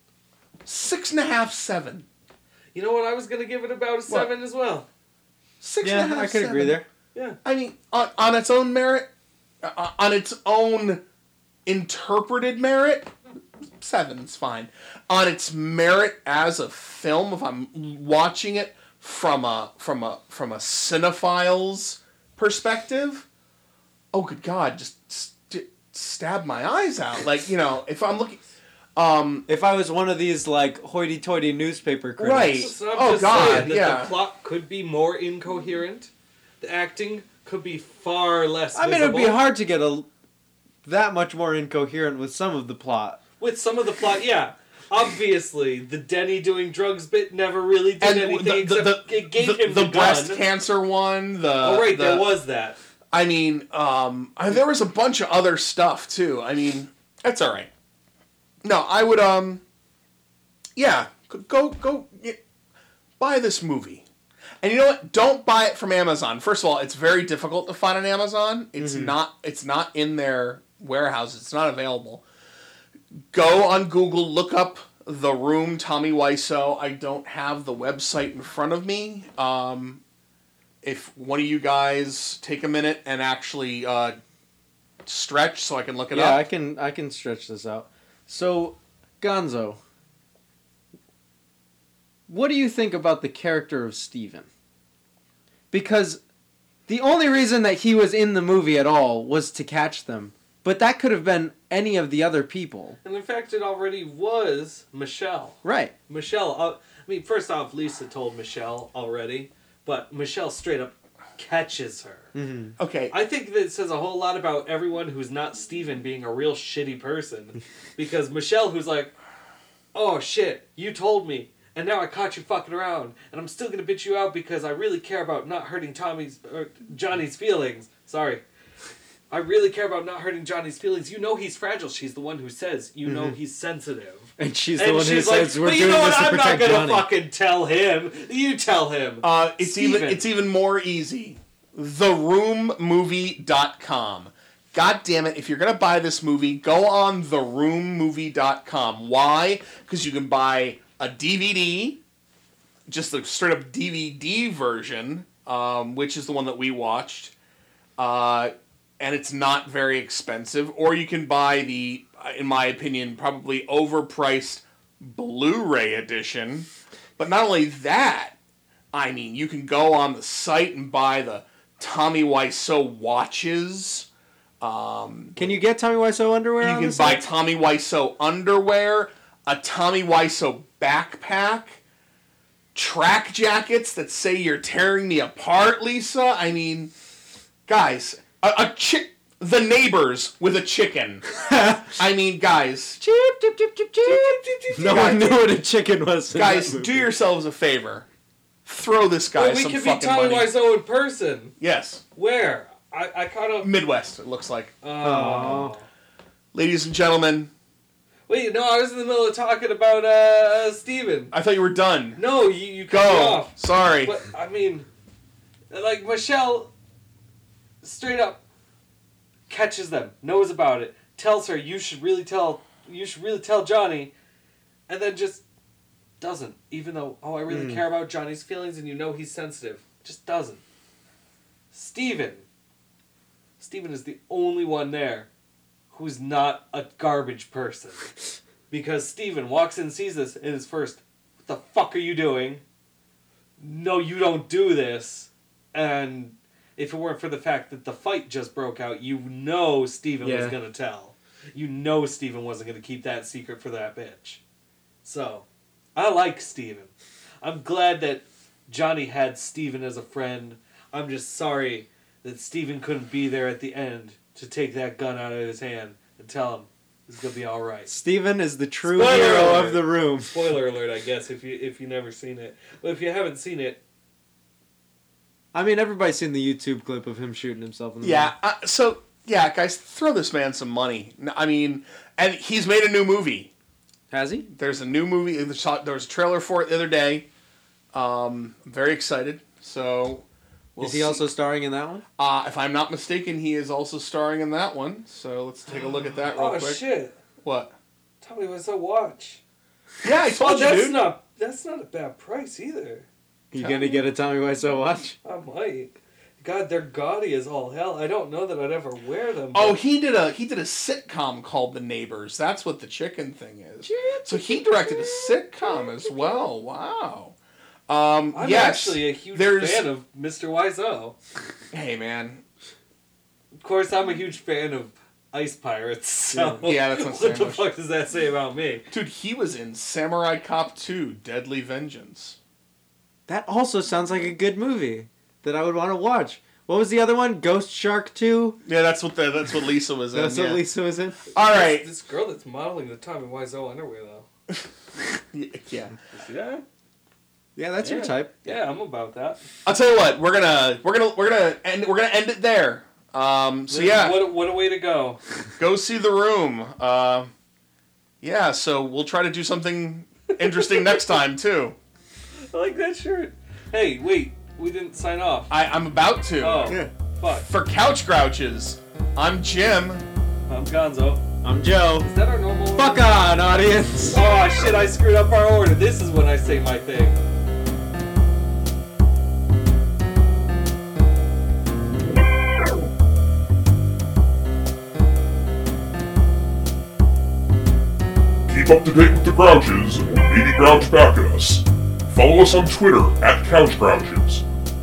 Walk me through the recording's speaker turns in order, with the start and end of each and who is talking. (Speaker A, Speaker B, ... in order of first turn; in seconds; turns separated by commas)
Speaker A: 0.7-2.1, Speaker B: 2.7-4.9, Speaker A: 5.6-6.8, Speaker C: 5.8-6.8, Speaker A: 7.5-9.1, Speaker A: 9.6-11.0, Speaker A: 11.7-13.1, Speaker A: 13.8-23.3, Speaker A: 24.1-28.4, Speaker A: 29.0-29.5, Speaker C: 29.5-32.7, Speaker A: 32.2-34.1, Speaker B: 32.6-39.4, Speaker C: 38.8-40.1, Speaker C: 40.8-43.2, Speaker B: 43.4-50.4, Speaker A: 48.0-52.3, Speaker B: 51.6-52.8, Speaker A: 53.1-57.7, Speaker A: 58.6-59.6, Speaker A: 60.8-62.4, Speaker A: 63.2-64.0, Speaker A: 64.6-72.2, Speaker C: 68.8-69.2, Speaker A: 73.3-80.0, Speaker A: 80.8-84.2, Speaker A: 85.0-86.5, Speaker C: 86.1-89.8, Speaker C: 92.3-94.5, Speaker C: 95.7-96.2, Speaker C: 96.9-103.0, Speaker B: 103.0-112.3, Speaker C: 105.6-105.9, Speaker C: 112.3-112.8, Speaker A: 112.8-113.2, Speaker B: 113.1-119.1, Speaker B: 119.9-128.4, Speaker B: 129.3-140.2, Speaker C: 133.1-133.4, Speaker C: 134.4-137.1, Speaker A: 139.2-152.0, Speaker A: 152.9-157.3, Speaker A: 158.0-166.7, Speaker A: 167.2-168.4, Speaker A: 168.9-174.1, Speaker A: 174.6-175.5, Speaker C: 175.4-177.2, Speaker A: 176.6-181.8, Speaker A: 182.8-186.9, Speaker A: 187.7-193.0, Speaker C: 191.4-192.0, Speaker C: 193.0-197.1, Speaker B: 194.0-195.5, Speaker A: 196.3-198.1, Speaker A: 198.7-200.5, Speaker B: 199.3-201.6, Speaker A: 201.6-202.0, Speaker B: 202.2-203.7, Speaker A: 203.6-204.8, Speaker B: 204.8-205.8, Speaker C: 205.0-205.7, Speaker A: 206.5-207.5, Speaker B: 208.3-211.3, Speaker A: 211.3-212.2, Speaker B: 212.2-214.9, Speaker A: 212.9-214.2, Speaker B: 215.7-216.7, Speaker B: 217.8-218.4, Speaker B: 219.5-224.1, Speaker B: 224.9-225.4, Speaker B: 226.2-230.6, Speaker C: 227.5-227.8, Speaker B: 231.7-232.5, Speaker B: 233.6-235.3, Speaker B: 235.9-238.1, Speaker B: 238.7-242.6, Speaker B: 243.6-254.4, Speaker C: 250.2-250.6, Speaker B: 255.0-267.9, Speaker C: 267.9-270.4, Speaker B: 268.8-273.8, Speaker C: 275.5-278.3, Speaker A: 278.0-283.5, Speaker C: 284.1-284.5, Speaker A: 284.5-287.3, Speaker A: 287.9-291.2, Speaker C: 290.8-292.0, Speaker A: 292.2-296.8, Speaker B: 296.3-297.2, Speaker A: 297.4-297.8, Speaker B: 298.2-299.4, Speaker A: 300.0-301.1, Speaker B: 300.4-303.1, Speaker C: 303.5-305.2, Speaker B: 303.6-304.0, Speaker B: 305.2-309.8, Speaker A: 309.5-317.4, Speaker B: 313.8-316.5, Speaker A: 317.9-319.9, Speaker B: 318.3-321.2, Speaker A: 321.7-322.4, Speaker B: 323.6-328.9, Speaker C: 326.3-326.6, Speaker A: 326.6-327.7, Speaker A: 328.9-332.4, Speaker C: 333.3-338.6, Speaker A: 338.6-340.6, Speaker C: 340.1-341.2, Speaker A: 341.3-341.9, Speaker B: 341.4-344.3, Speaker A: 345.3-345.9, Speaker B: 346.1-346.6, Speaker C: 347.6-348.4, Speaker B: 347.8-349.4, Speaker A: 349.6-354.2, Speaker B: 353.7-355.2, Speaker A: 355.6-357.3, Speaker A: 358.2-361.8, Speaker B: 360.3-361.1, Speaker B: 362.5-365.5, Speaker A: 365.5-370.0, Speaker B: 366.4-367.5, Speaker C: 366.7-366.9, Speaker B: 370.5-371.2, Speaker C: 371.4-372.1, Speaker B: 372.0-373.1, Speaker C: 372.8-374.2, Speaker B: 374.1-377.2, Speaker D: 388.5-394.4